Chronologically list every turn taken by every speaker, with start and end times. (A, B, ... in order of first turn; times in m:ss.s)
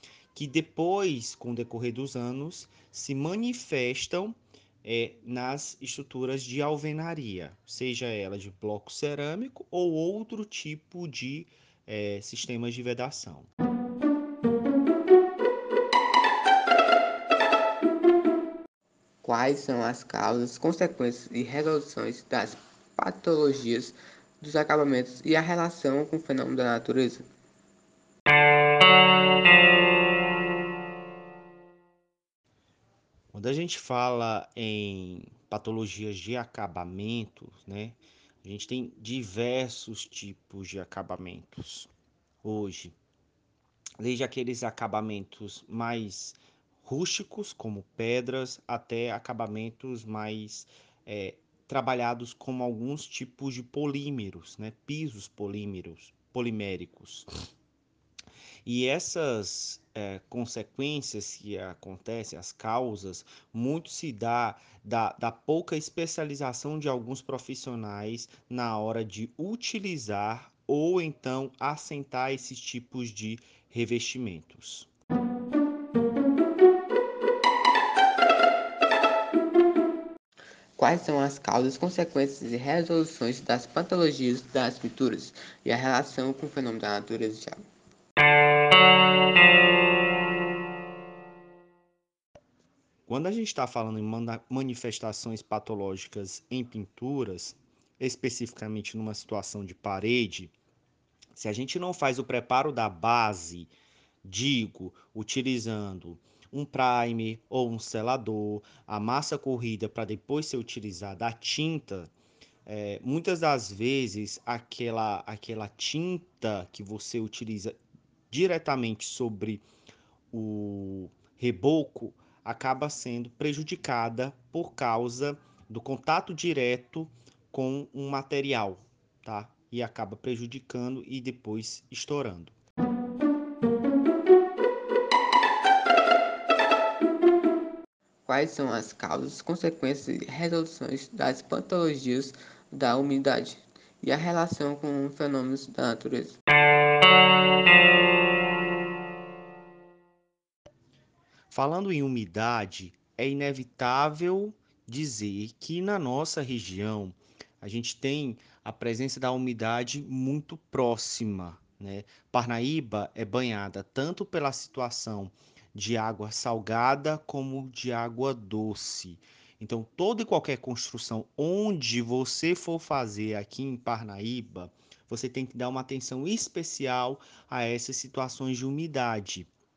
0:00.3-0:13.5 A
0:19.2-0:27.2 B
0:33.3-0:41.9 A
0:42.4-0:43.0 A
0:44.0-0:57.3 A
0:58.6-1:14.9 A
1:20.8-1:27.6 B
1:33.1-1:40.5 A
1:41.3-1:43.7 A
1:44.2-1:52.1 A
1:52.7-1:57.8 A
1:58.3-1:59.6 A
2:00.3-2:12.6 A
2:18.3-2:26.4 B
2:31.5-2:59.5 A